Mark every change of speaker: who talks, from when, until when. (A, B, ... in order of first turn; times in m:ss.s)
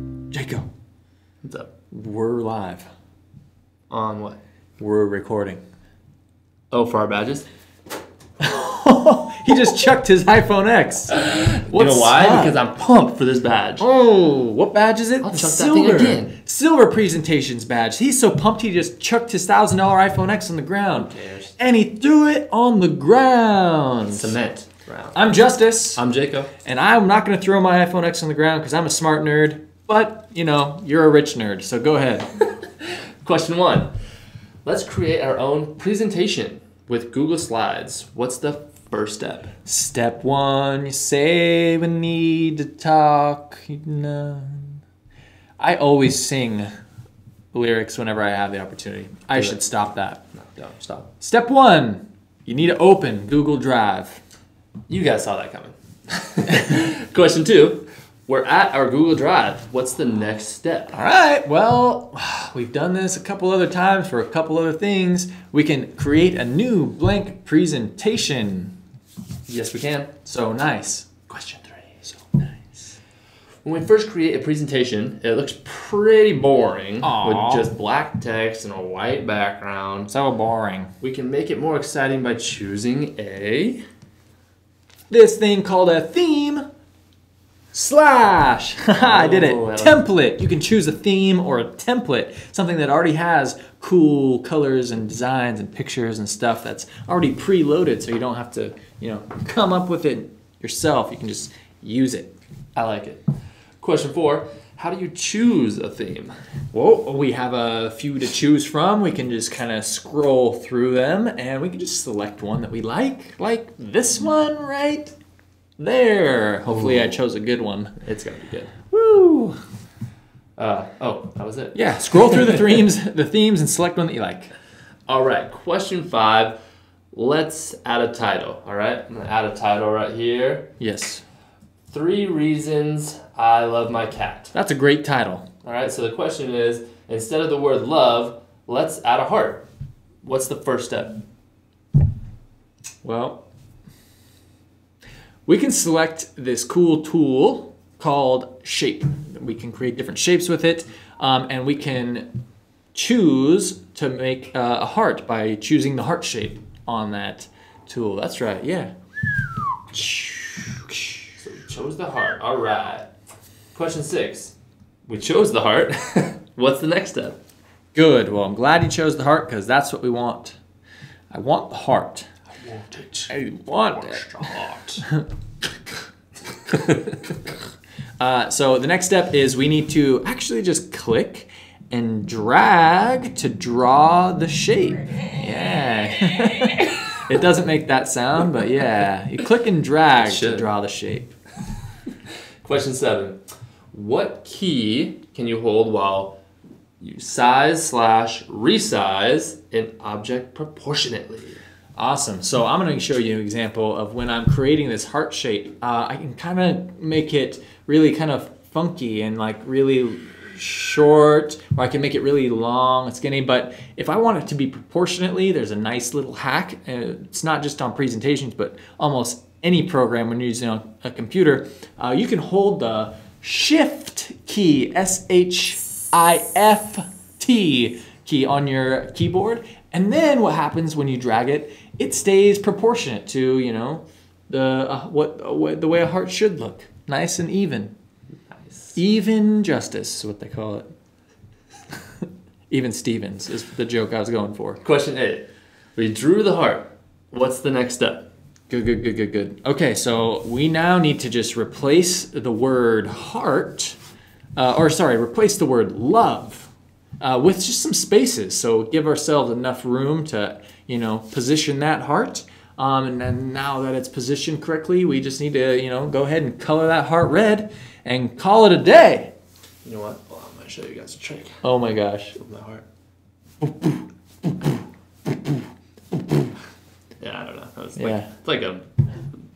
0:00.3-0:00.7 A
0:01.4-0:01.7 B
0:01.9-0:02.9 A
0:03.9-0:04.4 B
0:04.8-0:05.6 A
0:06.7-0:07.4 B
0:08.4-0:12.6 A
0:11.1-0:13.8 B
0:13.8-0:24.3 A
0:15.2-0:16.3 B
0:21.0-0:21.5 B
0:24.1-0:25.3 B
0:25.1-0:26.0 A
0:26.0-0:26.5 B
0:26.6-0:32.3 A
0:32.8-0:33.9 B
0:34.6-0:39.5 B
0:39.6-0:44.8 A
0:45.6-0:46.7 A
0:47.5-0:50.2 A
0:50.3-0:51.1 B
0:51.2-0:54.2 A
0:54.9-1:01.0 B
1:00.9-1:08.8 A
1:09.5-1:10.2 B
1:10.2-1:11.2 A
1:11.3-1:12.0 B
1:12.1-1:12.9 A
1:13.6-1:20.1 B
1:17.0-1:17.7 A
1:20.1-1:20.9 A
1:21.0-1:23.8 B
1:25.1-1:26.7 A
1:27.7-1:42.3 A
1:29.0-1:30.0 B
1:42.8-1:43.2 B
1:43.8-1:46.3 B
1:46.7-1:55.1 A
1:55.8-1:58.0 A
1:56.7-1:57.2 B
1:58.0-1:58.7 B
1:58.8-1:59.6 A
2:00.6-2:02.6 B
2:01.7-2:04.5 A
2:05.1-2:06.6 B
2:07.1-2:10.7 B
2:10.8-2:11.2 A
2:11.9-2:14.5 B
2:14.5-2:15.5 A
2:15.6-2:19.6 B
2:20.2-2:21.2 B
2:23.0-2:23.4 A
2:25.5-2:32.3 A
2:32.9-2:38.9 A
2:39.9-2:41.1 A
2:41.4-2:43.1 B
2:43.8-2:44.5 B
2:45.1-2:47.4 B
2:47.9-2:50.6 A
2:51.3-2:52.3 A
2:52.6-2:53.3 B
2:53.3-2:54.6 A
2:53.9-2:55.0 B
2:58.2-3:11.3 A
3:10.2-3:10.7 B
3:12.6-3:13.4 B
3:13.9-3:16.4 B
3:17.0-3:21.6 B
3:22.0-3:57.9 A
3:58.9-4:00.9 A
4:02.7-4:04.8 A
4:04.8-4:08.3 B
4:08.7-4:14.0 A
4:14.6-4:29.3 A
4:29.8-4:31.6 B
4:31.6-4:32.4 A
4:32.3-4:32.8 B
4:33.6-4:34.8 A
4:37.2-4:39.1 B
4:38.0-4:38.3 A